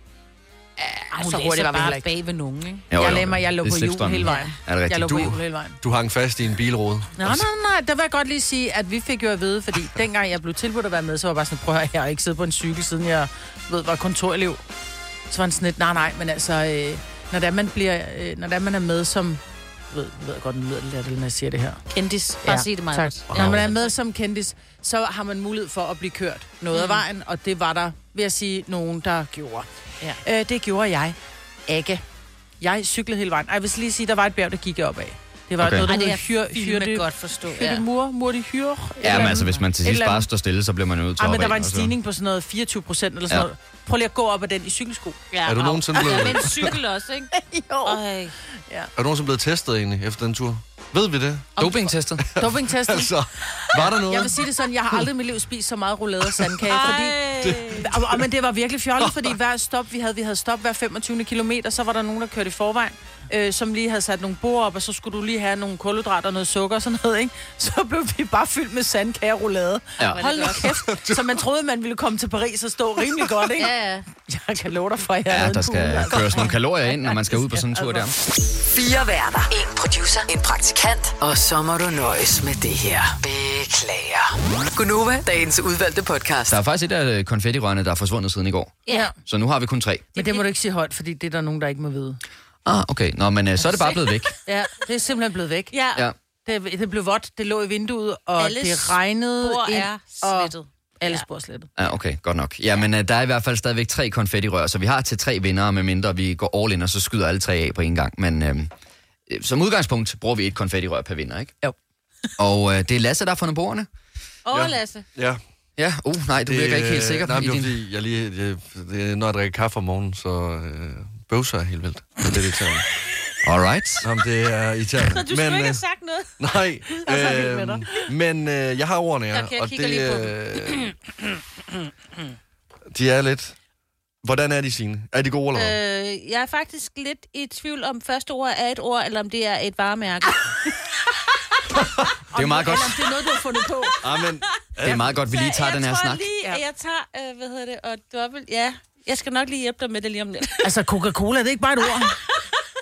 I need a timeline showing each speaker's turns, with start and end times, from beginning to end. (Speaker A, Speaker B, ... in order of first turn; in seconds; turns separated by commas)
Speaker A: 0.8-2.0, Speaker B: 1.1-2.9, Speaker C: 2.9-5.4, Speaker A: 2.9-5.8, Speaker D: 5.8-7.3, Speaker A: 7.2-14.6, Speaker A: 15.3-19.4, Speaker A: 19.9-21.8, Speaker B: 21.9-23.9, Speaker A: 22.4-29.7, Speaker D: 23.3-23.7, Speaker B: 26.7-27.0, Speaker A: 30.2-31.1, Speaker A: 31.7-32.0, Speaker A: 32.6-40.2, Speaker C: 35.6-35.9, Speaker B: 35.8-37.8, Speaker C: 39.0-41.9, Speaker B: 39.1-39.6, Speaker A: 41.2-45.2, Speaker B: 45.3-47.3, Speaker D: 45.4-46.7, Speaker A: 46.0-46.3, Speaker A: 47.3-48.0, Speaker B: 47.8-48.3, Speaker D: 49.0-51.6, Speaker C: 51.6-52.3, Speaker D: 52.2-54.5, Speaker A: 52.3-53.1, Speaker A: 53.8-57.2, Speaker B: 56.7-57.9, Speaker D: 57.4-58.2, Speaker A: 57.7-78.0, Speaker D: 59.0-59.3, Speaker B: 70.1-70.7, Speaker D: 70.8-71.4, Speaker B: 73.6-74.0, Speaker C: 75.3-78.1, Speaker E: 78.6-86.6, Speaker C: 86.5-90.0, Speaker B: 88.8-89.1, Speaker A: 88.9-89.1, Speaker A: 90.1-92.2, Speaker B: 90.2-90.4, Speaker C: 92.6-94.3, Speaker B: 93.8-94.3, Speaker A: 94.4-95.7, Speaker B: 95.7-96.1, Speaker A: 96.4-101.7, Speaker B: 98.4-101.2, Speaker C: 101.8-108.7, Speaker C: 109.3-111.5, Speaker C: 112.4-113.9, Speaker B: 114.5-115.0, Speaker D: 114.5-115.4, Speaker C: 115.8-117.8, Speaker D: 116.4-122.8, Speaker C: 123.4-124.1, Speaker D: 124.0-125.8, Speaker B: 125.0-126.4, Speaker D: 126.4-130.9, Speaker A: 127.0-127.8, Speaker B: 129.3-130.9, Speaker D: 132.9-133.5, Speaker D: 134.2-135.8, Speaker B: 135.5-140.6, Speaker D: 141.8-142.1, Speaker A: 142.3-143.9, Speaker C: 142.3-143.0, Speaker D: 144.0-145.1, Speaker C: 144.8-146.2, Speaker B: 145.2-150.7, Speaker A: 150.6-152.1, Speaker B: 152.0-152.4